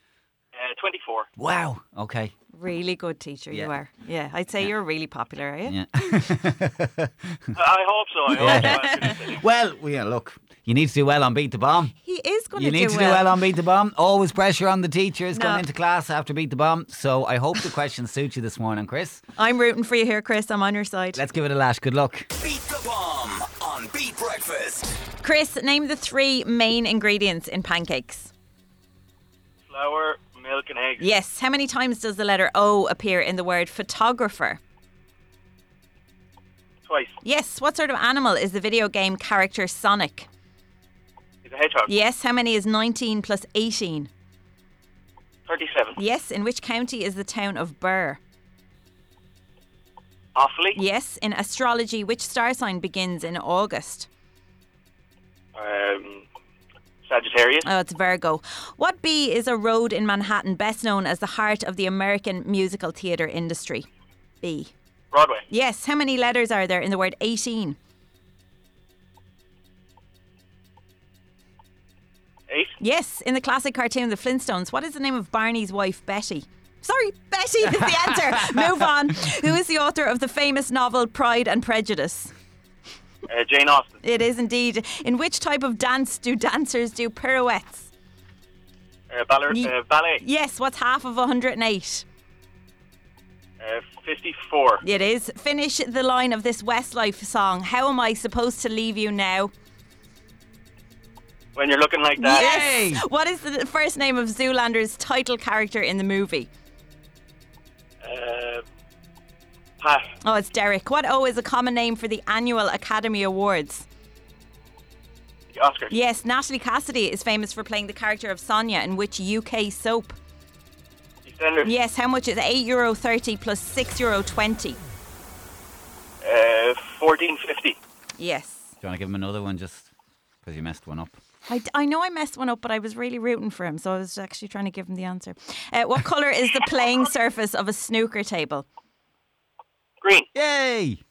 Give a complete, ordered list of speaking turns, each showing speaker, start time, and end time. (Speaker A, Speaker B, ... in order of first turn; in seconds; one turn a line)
Speaker A: 0.6-1.3
Speaker B: 1.4-2.3
Speaker C: 2.5-6.1
Speaker B: 5.7-7.5
Speaker A: 7.5-9.4
Speaker C: 8.3-9.2
Speaker B: 8.4-11.9
Speaker C: 12.0-13.3
Speaker B: 12.5-19.2
Speaker C: 15.3-15.7
Speaker C: 19.4-21.2
Speaker B: 21.1-22.3
Speaker D: 22.4-24.9
Speaker C: 25.2-28.3
Speaker A: 29.7-31.1
Speaker C: 31.0-34.6
Speaker A: 36.9-37.1
Speaker C: 37.2-40.3
Speaker A: 41.5-41.9
Speaker C: 41.9-44.1
Speaker A: 45.5-46.0
Speaker C: 46.0-48.2
Speaker A: 50.4-50.8
Speaker C: 50.7-54.1
Speaker A: 55.6-56.2
Speaker A: 57.1-57.7
Speaker C: 57.6-63.9
Speaker C: 64.4-64.7
Speaker A: 65.1-65.4
Speaker C: 65.5-67.8
Speaker C: 72.8-82.3
Speaker A: 83.3-84.0
Speaker C: 84.0-87.9
Speaker A: 89.1-90.2
Speaker C: 89.5-92.0
Speaker A: 93.6-94.8
Speaker C: 94.8-99.5
Speaker A: 101.5-102.5
Speaker C: 102.2-106.5
Speaker B: 102.3-103.0
Speaker A: 108.0-108.6
Speaker A: 109.8-110.1
Speaker C: 110.2-113.9
Speaker A: 115.5-115.9
Speaker C: 115.9-120.2
Speaker A: 121.2-121.7
Speaker C: 121.6-124.8
Speaker A: 126.2-127.8
Speaker C: 128.2-128.7
Speaker B: 128.8-129.9
Speaker B: 130.4-131.2
Speaker C: 131.5-138.7
Speaker A: 140.0-140.3
Speaker B: 140.3-141.0